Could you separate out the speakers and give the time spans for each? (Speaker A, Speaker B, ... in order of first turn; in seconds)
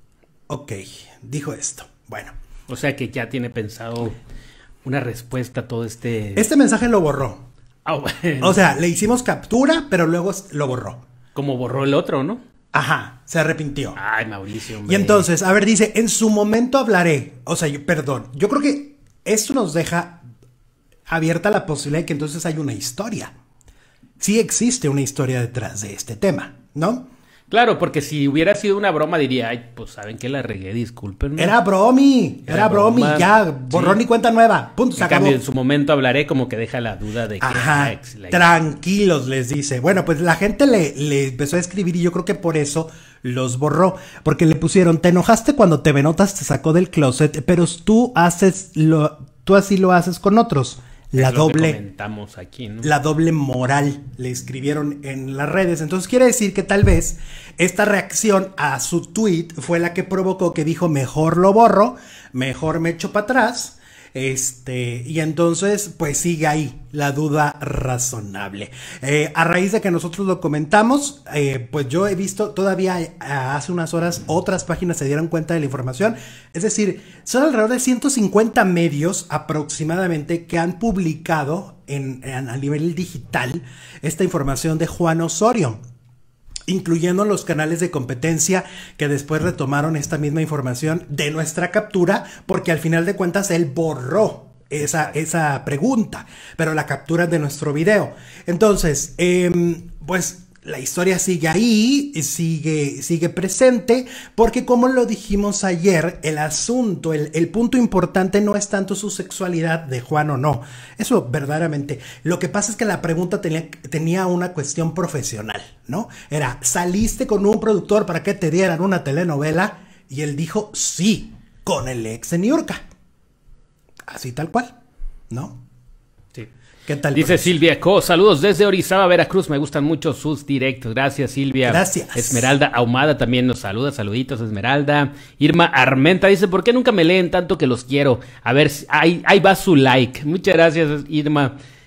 Speaker A: 0.5-2.3, 6.3-7.5, 8.4-11.0, 12.7-14.0, 14.8-20.2, 21.1-23.3, 24.2-27.1, 31.4-35.4, 37.4-51.8, 52.8-85.8, 86.7-122.8, 124.1-124.7, 125.3-125.6, 126.9-127.5, 131.6-132.5
Speaker B: 2.7-4.2, 4.8-6.5, 7.8-8.6, 11.3-12.4, 13.9-15.3, 27.5-31.5, 32.5-34.0, 35.0-38.5, 51.1-52.9, 94.8-95.2, 127.1-141.5